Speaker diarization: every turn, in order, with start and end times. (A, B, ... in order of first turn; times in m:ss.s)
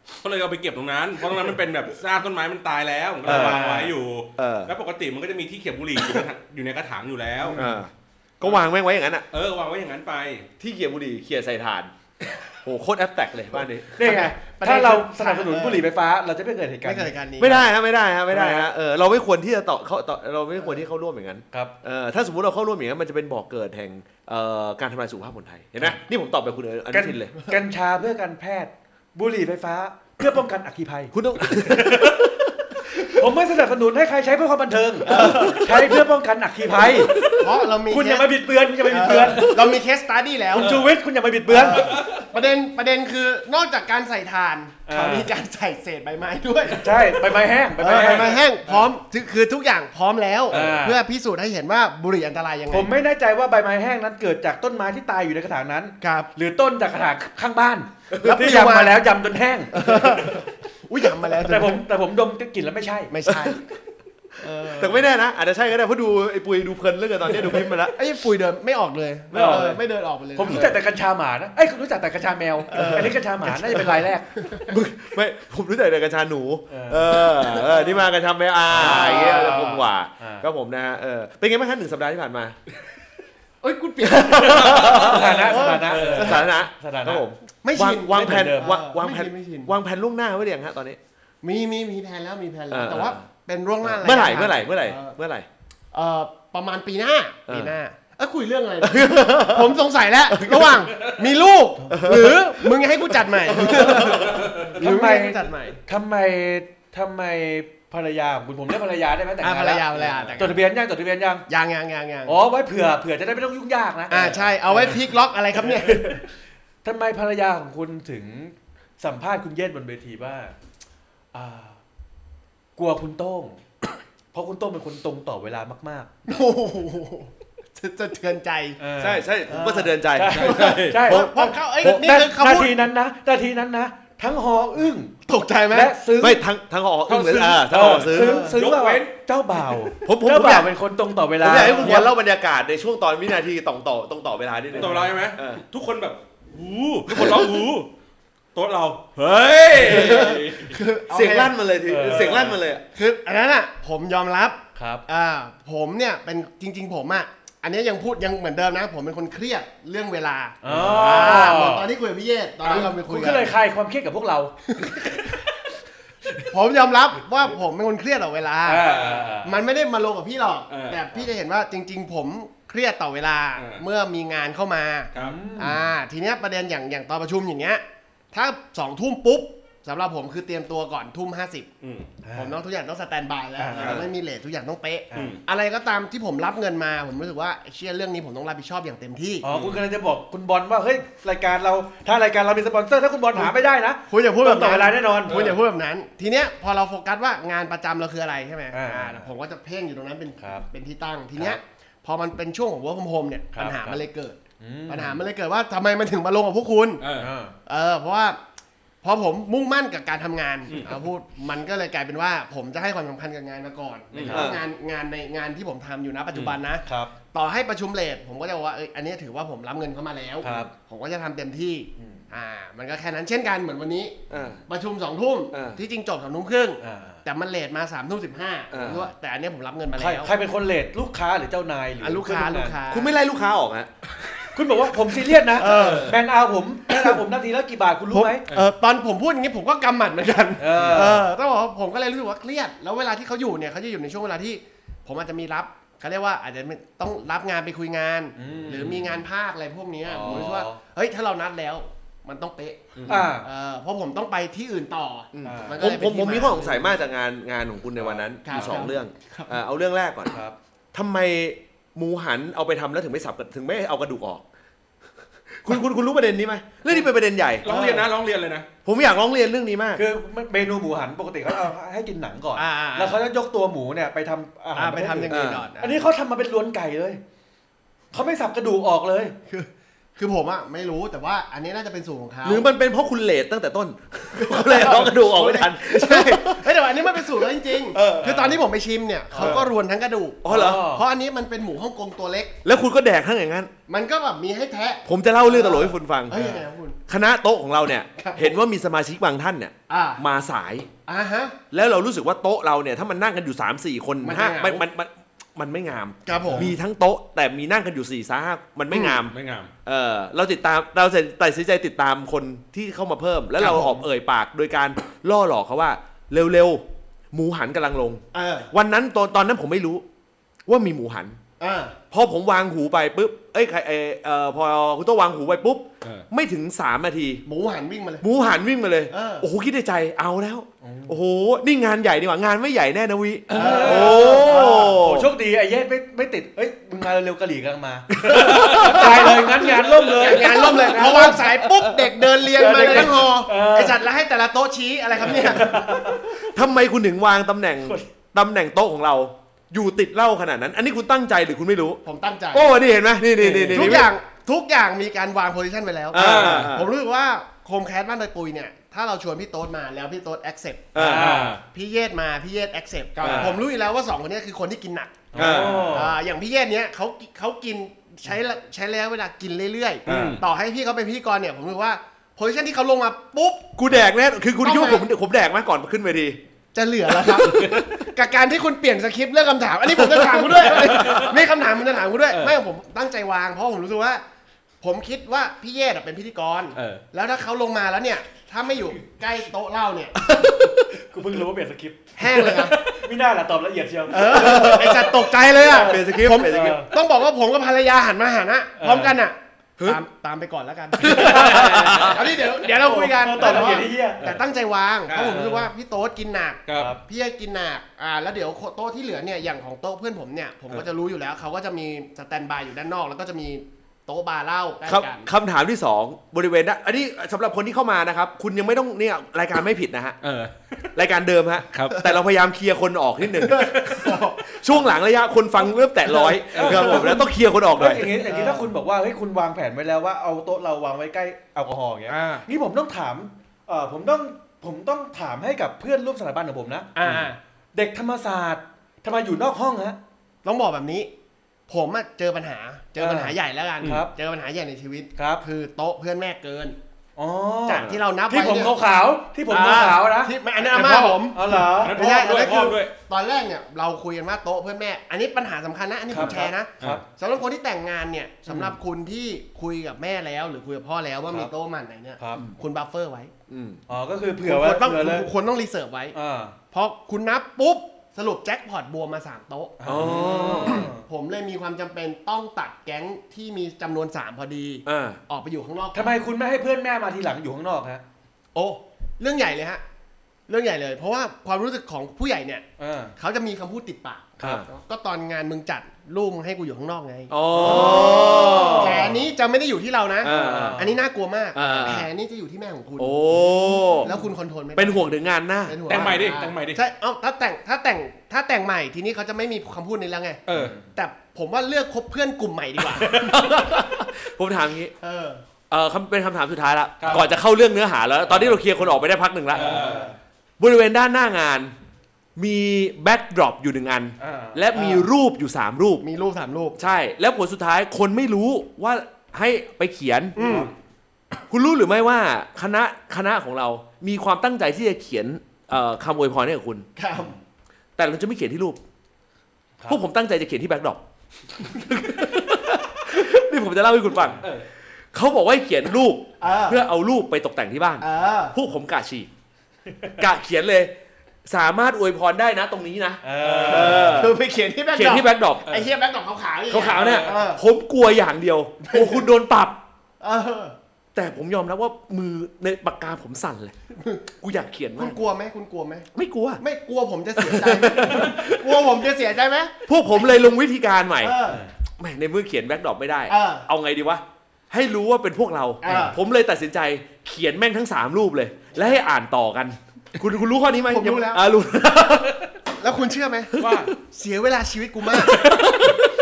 0:00.2-0:07.6 A
0:03.2-0:03.9 B
0:03.2-0:03.6 C
0:04.4-0:04.7 C
0:07.5-0:09.2 C
0:09.3-0:10.5 A
0:10.6-0:14.0 C
0:14.0-0:17.6 B
0:14.0-0:15.9 D
0:16.8-0:17.7 D
0:17.4-0:27.3 C
0:18.3-0:18.7 B
0:26.9-0:31.1 B
0:31.1-0:33.1 C
0:33.1-0:37.3 B
0:35.0-0:35.7 D
0:35.1-0:35.5 C
0:37.2-0:40.9 D
0:37.9-0:39.8 B
0:40.5-0:42.0 B
0:41.5-0:47.1 D
0:41.9-0:42.2 A
0:44.9-0:45.3 B
0:46.7-0:48.4 B
0:47.8-0:52.9 D
0:47.9-0:48.9 A
0:50.5-0:51.0 B
0:52.7-1:00.4 B
0:56.0-0:56.3 D
0:58.2-0:59.0 D
0:59.7-1:01.8 D
1:01.4-1:03.1 B
1:03.1-1:03.6 D
1:03.3-1:03.5 C
1:04.4-1:05.0 D
1:04.7-1:08.0 C
1:07.6-1:10.7 D
1:09.3-1:09.8 B
1:09.3-1:09.8 C
1:10.3-1:14.3 B
1:12.7-1:14.8 D
1:12.7-1:13.1 C
1:14.7-1:22.6 C
1:16.7-1:17.2 B
1:17.5-1:18.0 D
1:18.7-1:20.4 B
1:18.8-1:19.5 D
1:23.6-1:26.5 D
1:24.0-1:25.6 C
1:24.6-1:27.2 B
1:24.6-1:24.9 A
1:25.9-1:26.4 A
1:26.1-1:31.0 C
1:27.6-1:29.7 D
1:28.1-1:28.8 B
1:31.4-1:35.1 D
1:32.7-1:33.2 C
1:33.8-1:35.5 C
1:35.9-1:45.8 D
1:37.5-1:37.8 C
1:38.8-1:39.8 C
1:40.3-1:40.9 C
1:41.9-1:42.8 C
1:43.5-1:44.5 C
1:44.6-1:49.8 B
1:49.4-1:50.6 D
1:49.9-1:50.4 A
1:50.4-1:51.4 B
1:51.5-1:52.4 D
1:52.2-1:55.0 B
1:54.1-1:56.2 D
1:55.6-1:56.3 B
1:56.8-2:00.5 B
2:01.3-2:01.8 B
2:02.8-2:03.6 B
2:04.3-2:06.1 B
2:06.2-2:08.8 D
2:08.8-2:15.2 B
2:09.0-2:12.0 C
2:10.3-2:11.0 A
2:10.4-2:12.8 D
2:15.2-2:15.9 D
2:15.7-2:16.4 B
2:16.2-2:18.5 C
2:17.1-2:19.1 A
2:17.6-2:22.1 B
2:18.1-2:18.6 D
2:20.0-2:20.7 C
2:21.4-2:25.6 C
2:21.5-2:22.0 D
2:24.7-2:27.9 A
2:24.8-2:25.1 B
2:27.1-2:27.6 C
2:28.5-2:30.8 A
2:29.8-2:30.4 C
2:29.8-2:31.5 D
2:31.1-2:32.8 C
2:31.8-2:32.4 B
2:32.0-2:32.6 A
2:32.9-2:43.5 D
2:34.8-2:35.0 B
2:40.6-2:41.9 B
2:42.6-2:44.5 B
2:44.7-2:45.2 D
2:46.5-3:01.7 D
2:48.6-2:49.6 B
2:48.8-2:49.3 A
2:50.7-2:51.0 A
2:53.6-2:53.8 A
2:55.2-2:55.8 B
3:01.8-3:02.1 A
3:02.2-3:02.6 B
3:02.3-3:09.4 D
3:03.6-3:04.0 B
3:03.8-3:04.1 A
3:05.1-3:05.4 B
3:05.1-3:05.4 A
3:09.4-3:15.6 B
3:09.5-3:09.8 A
3:14.1-3:27.0 D
3:15.3-3:15.6 A
3:18.7-3:19.3 B
3:20.4-3:20.7 B
3:23.5-3:24.0 B
3:24.6-3:25.2 B
3:27.0-3:27.3 A
3:27.2-3:27.6 B
3:27.6-3:28.4 D
3:29.0-3:50.3 D
3:30.7-3:31.0 A
3:34.1-3:34.6 A
3:34.2-3:34.6 B
3:34.3-3:34.6 C
3:36.8-3:37.1 B
3:40.4-3:40.7 B
3:42.0-3:42.2 B
3:44.3-3:44.6 C
3:45.5-3:45.8 C
3:46.8-3:47.2 B
3:48.7-3:49.1 C
3:50.0-3:52.8 B
3:52.0-3:53.1 D
3:52.9-3:53.9 C
3:54.5-3:58.4 B
3:55.5-3:56.2 D
3:56.9-3:57.2 D
3:58.1-4:17.0 D
4:00.6-4:01.2 B
4:08.4-4:09.0 B
4:10.0-4:10.8 B
4:13.0-4:13.2 A
4:13.1-4:13.5 B
4:15.3-4:20.3 C
4:15.4-4:15.8 B
4:18.0-4:18.8 B
4:18.4-4:19.6 D
4:20.3-4:20.6 B
4:20.9-4:24.4 C
4:25.5-4:27.7 C
4:27.6-4:28.7 A
4:27.6-4:28.1 D
4:28.8-4:30.0 C
4:29.9-4:37.2 B
4:32.6-4:33.2 D
4:34.7-4:36.0 D
4:35.3-4:35.7 C
4:38.1-4:39.4 B
4:39.5-4:42.7 D
4:42.4-4:48.5 C
4:44.4-4:52.6 D
4:48.2-4:48.6 B
4:49.3-4:49.7 B
4:49.4-4:49.7 C
4:50.4-4:50.8 C
4:50.4-4:51.0 B
4:52.6-4:53.7 C
4:53.9-4:57.0 D
4:55.0-4:56.4 C
4:56.3-4:56.6 B
4:57.1-5:00.9 C
4:58.2-4:58.5 D
4:59.9-5:00.2 D
5:01.0-5:01.6 D
5:01.7-5:20.0 C
5:04.2-5:04.8 D
5:06.2-5:06.7 D
5:06.4-5:06.7 B
5:08.9-5:09.2 D
5:09.3-5:09.7 A
5:13.6-5:14.0 D
5:18.3-5:18.7 D
5:20.6-5:21.4 C
5:21.6-5:22.0 D
5:22.1-5:27.4 C
5:27.4-5:28.2 D
5:28.2-5:35.3 C
5:29.1-5:29.5 D
5:30.8-5:31.2 B
5:33.5-5:44.0 B
5:33.5-5:35.0 D
5:38.1-5:39.6 C
5:38.5-5:38.9 A
5:38.8-5:46.0 D
5:45.2-5:46.4 B
5:45.3-5:45.7 C
5:46.3-5:52.0 C
5:52.0-5:52.8 D
5:52.5-5:54.1 C
5:53.4-5:54.1 B
5:53.7-6:13.8 D
5:56.1-5:56.9 C
5:56.1-5:56.7 A
6:00.9-6:01.4 C
6:01.0-6:01.6 B
6:01.0-6:01.6 A
6:03.2-6:03.6 A
6:03.2-6:03.5 C
6:03.2-6:03.6 B
6:05.3-6:06.1 B
6:05.4-6:05.9 C
6:05.4-6:05.9 A
6:10.1-6:10.4 C
6:10.1-6:10.4 A
6:13.8-6:16.4 C
6:14.6-6:15.0 D
6:16.7-6:24.2 D
6:17.2-6:17.9 C
6:17.4-6:17.9 A
6:20.1-6:21.2 C
6:20.7-6:21.4 A
6:22.3-6:22.6 A
6:24.8-6:30.2 D
6:26.7-6:27.0 A
6:30.3-6:30.8 C
6:30.9-6:36.9 B
6:32.2-6:32.8 D
6:34.1-6:55.3 D
6:34.3-6:36.8 C
6:38.8-6:39.2 B
6:41.0-6:42.3 C
6:41.0-6:44.4 B
6:45.1-6:45.4 A
6:45.3-6:45.7 B
6:46.6-6:46.9 A
6:46.7-6:47.0 B
6:54.8-7:00.2 C
7:00.2-7:00.9 A
7:00.9-7:08.1 C
7:01.7-7:02.0 A
7:03.4-7:04.8 D
7:06.5-7:16.9 B
7:06.5-7:07.0 A
7:06.8-7:07.1 D
7:08.1-7:08.7 D
7:12.1-7:12.4 A
7:16.9-7:17.4 D
7:17.0-7:17.3 A
7:17.7-7:20.0 B
7:20.4-7:21.1 D
7:21.7-7:26.8 D
7:23.0-7:24.1 B
7:25.2-7:25.4 B
7:27.2-7:32.0 B
7:27.7-7:28.7 D
7:29.5-7:43.3 D
7:31.8-7:32.9 A
7:36.1-7:37.0 B
7:38.5-7:38.8 B
7:42.2-7:42.4 B
7:43.5-7:43.8 C
7:43.9-7:45.3 B
7:44.4-7:46.2 D
7:46.1-7:46.5 B
7:46.7-7:56.1 D
7:49.8-7:51.0 B
7:49.8-7:50.9 C
7:54.8-7:55.2 C
7:55.9-7:58.0 B
7:58.5-7:59.8 D
8:00.5-8:02.6 D
8:02.8-8:03.2 B
8:03.2-8:15.1 D
8:04.4-8:04.7 C
8:07.3-8:09.2 C
8:07.5-8:09.1 B
8:10.2-8:10.8 C
8:10.2-8:11.0 B
8:11.5-8:12.1 C
8:13.0-8:14.1 C
8:14.8-8:16.1 C
8:15.6-8:20.4 D
8:15.9-8:16.8 A
8:20.5-8:20.7 A
8:20.5-8:20.9 B
8:20.9-8:23.4 D
8:23.0-8:24.9 C
8:25.0-8:25.4 D
8:25.7-8:30.0 C
8:27.0-8:27.2 A
8:29.5-8:30.2 B
8:29.5-8:30.1 A
8:30.6-8:31.7 C
8:32.4-8:36.0 C
8:34.2-8:34.6 B
8:34.7-8:35.1 D
8:36.0-8:36.8 D
8:36.8-8:40.7 C
8:40.4-8:40.7 D
8:40.4-8:40.7 B
8:41.5-8:46.8 C
8:47.0-8:47.4 D
8:48.0-8:48.8 C
8:49.9-8:51.0 C
8:51.6-8:54.5 C
8:55.1-8:59.3 C
8:56.4-8:56.8 D
8:58.0-8:58.6 D
9:00.2-9:00.9 C
9:01.4-9:04.4 C
9:03.2-9:04.2 B
9:03.4-9:04.2 A
9:03.7-9:07.6 D
9:04.9-9:05.7 C
9:06.7-9:09.8 C
9:06.9-9:07.4 A
9:08.8-9:09.3 D
9:10.2-9:10.8 D
9:11.1-9:13.7 C
9:13.9-9:14.2 D
9:14.4-9:15.2 C
9:15.0-9:16.1 D
9:16.1-9:16.6 C
9:16.6-9:19.8 D
9:17.4-9:18.8 C
9:19.9-9:21.4 C
9:21.2-9:21.6 D
9:21.5-9:21.7 B
9:22.0-9:32.5 C
9:23.3-9:23.7 D
9:25.8-9:26.2 D
9:25.8-9:26.1 B
9:30.9-9:31.4 D
9:32.8-9:35.6 D
9:33.5-9:33.9 C
9:33.6-9:33.9 A
9:35.1-9:36.0 A
9:35.4-9:36.0 C